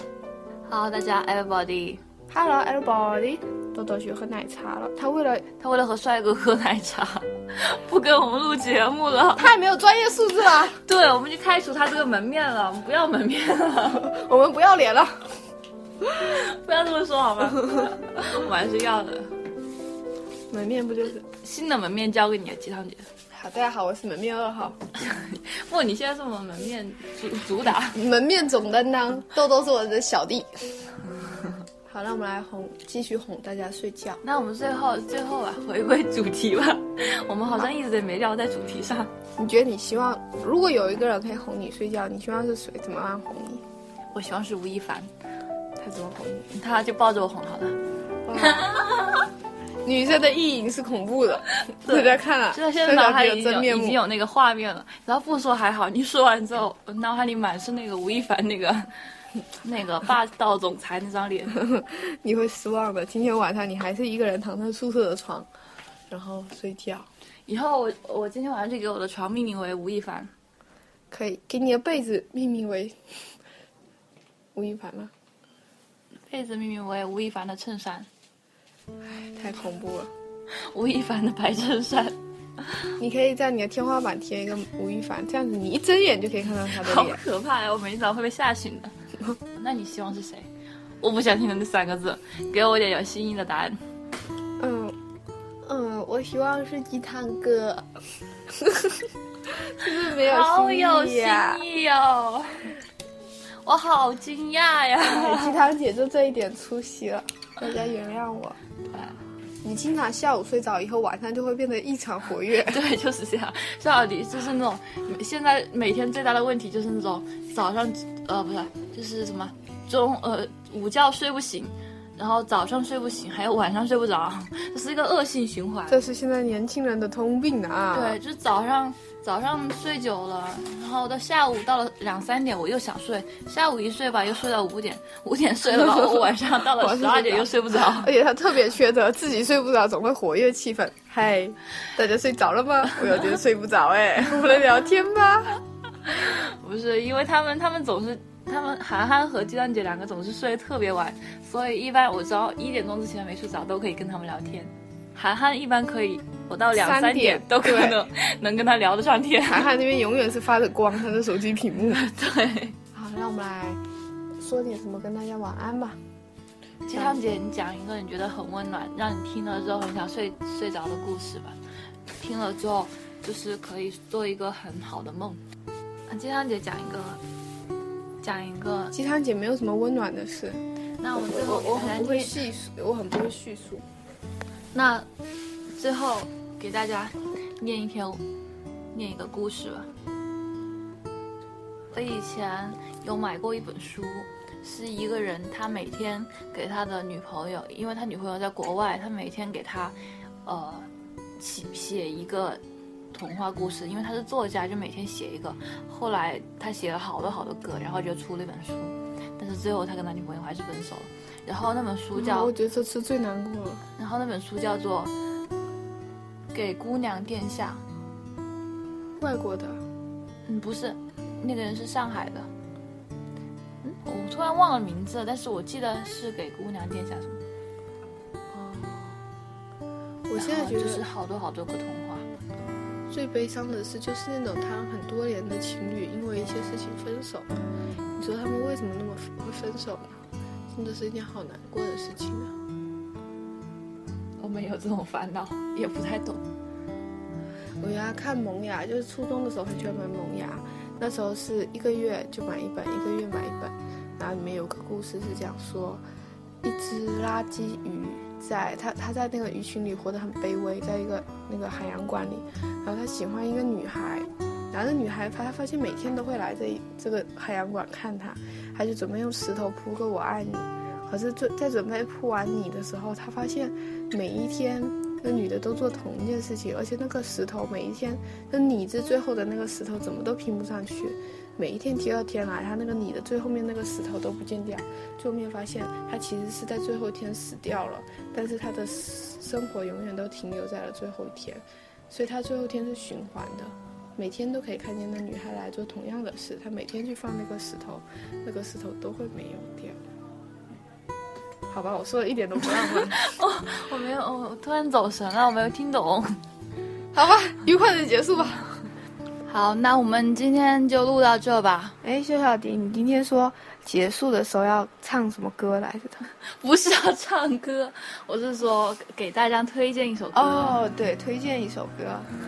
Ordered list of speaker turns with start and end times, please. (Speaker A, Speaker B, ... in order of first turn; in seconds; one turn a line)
Speaker A: 0.7-2.0
Speaker B: 2.3-5.5
Speaker A: 5.6-9.5
Speaker B: 9.4-10.8
Speaker A: 10.8-14.1
Speaker B: 13.9-15.3
Speaker A: 16.1-19.3
Speaker B: 20.5-21.2
Speaker A: 21.3-23.1
Speaker B: 23.3-24.8
Speaker A: 24.9-28.0
Speaker B: 27.8-30.6
Speaker B: 31.9-34.2
Speaker A: 34.2-39.1
Speaker B: 39.4-43.6
Speaker A: 44.1-45.1
Speaker B: 45.8-46.5
Speaker A: 46.5-47.8
Speaker B: 48.2-48.8
Speaker A: 48.4-48.9
Speaker B: 49.8-54.0
Speaker A: 51.7-58.9
Speaker A: 59.6-61.6
Speaker B: 61.5-65.5
Speaker B: 66.1-67.1
Speaker A: 67.5-70.3
Speaker B: 71.1-73.3
Speaker B: 74.5-75.1
Speaker A: 76.3-78.1
Speaker B: 79.2-80.1
Speaker A: 80.6-82.2
Speaker B: 83.0-87.2
Speaker A: 86.8-88.9
Speaker A: 89.5-90.5
Speaker A: 91.0-93.8
Speaker B: 94.6-95.0
Speaker B: 95.6-97.9
Speaker B: 98.5-101.6
Speaker A: 100.2-102.7
Speaker A: 103.6-105.5
Speaker B: 105.0-108.6
Speaker A: 108.9-109.2
Speaker B: 109.6-112.8
Speaker A: 112.7-126.0
Speaker B: 125.9-128.2
Speaker A: 127.9-138.1
Speaker B: 136.8-145.6
Speaker A: 146.1-159.7
Speaker B: 156.7-158.0
Speaker B: 159.4-162.0
Speaker A: 161.9-162.8
Speaker B: 162.9-163.8
Speaker B: 164.4-166.0
Speaker A: 166.9-171.6
Speaker B: 166.9-167.2
Speaker A: 172.2-175.4
Speaker A: 176.1-177.2
Speaker A: 178.2-178.9
Speaker B: 178.9-183.8
Speaker A: 181.0-182.4
Speaker A: 184.7-185.1
Speaker A: 185.7-188.2
Speaker A: 188.9-189.9
Speaker A: 191.9-202.6
Speaker A: 203.1-212.5
Speaker B: 212.1-213.8
Speaker A: 214.0-215.1
Speaker A: 216.5-217.8
Speaker B: 219.2-219.8
Speaker A: 220.4-222.5
Speaker A: 223.8-227.4
Speaker B: 228.5-229.2
Speaker B: 230.3-231.0
Speaker A: 230.3-232.2
Speaker B: 233.1-237.5
Speaker B: 238.1-242.5
Speaker A: 244.4-246.4
Speaker B: 247.8-256.0
Speaker B: 256.6-300.0
Speaker B: 301.7-303.4
Speaker A: 302.8-306.4
Speaker B: 307.1-308.7
Speaker A: 309.4-311.9
Speaker B: 312.0-316.3
Speaker A: 316.5-320.8
Speaker B: 320.3-322.3